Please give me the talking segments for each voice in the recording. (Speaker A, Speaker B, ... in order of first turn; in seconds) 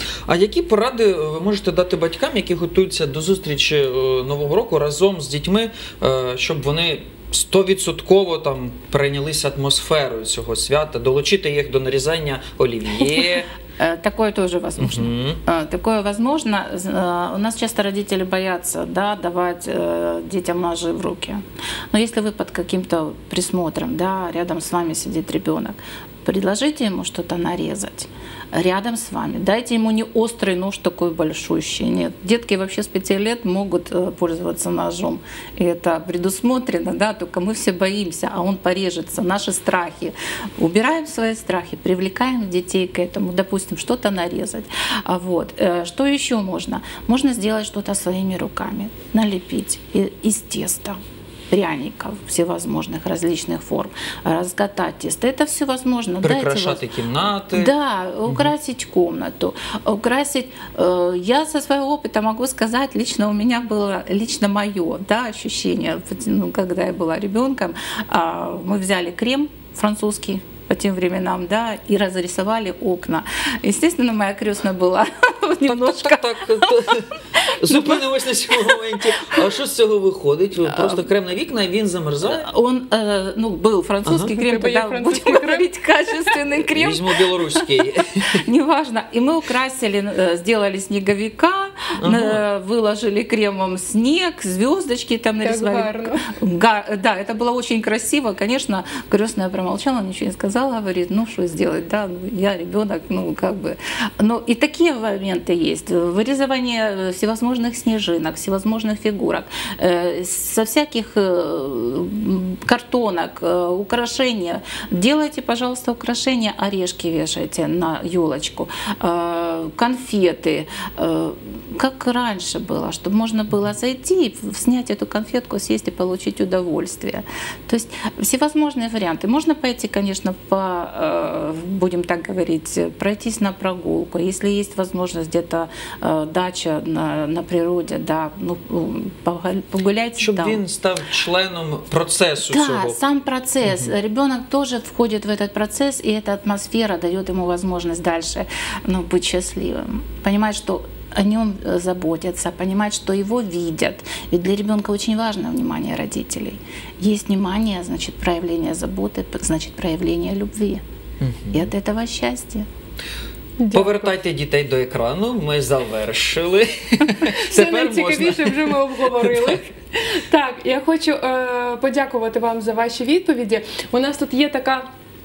Speaker A: 0.3-13.5, 14.8-15.4, 56.2-57.7, 75.7-77.0, 77.6-82.5, 84.1-84.3, 86.8-88.3, 92.0-92.4, 140.2-143.0, 161.2-161.7, 163.7-169.6
Speaker B: 13.8-51.0, 51.5-77.0, 77.6-79.3, 80.7-81.0, 82.2-87.7, 88.3-140.6, 142.4-160.8, 161.5-162.7
Speaker C: 84.4-85.7, 95.4-96.3, 163.6-164.1, 167.3-174.9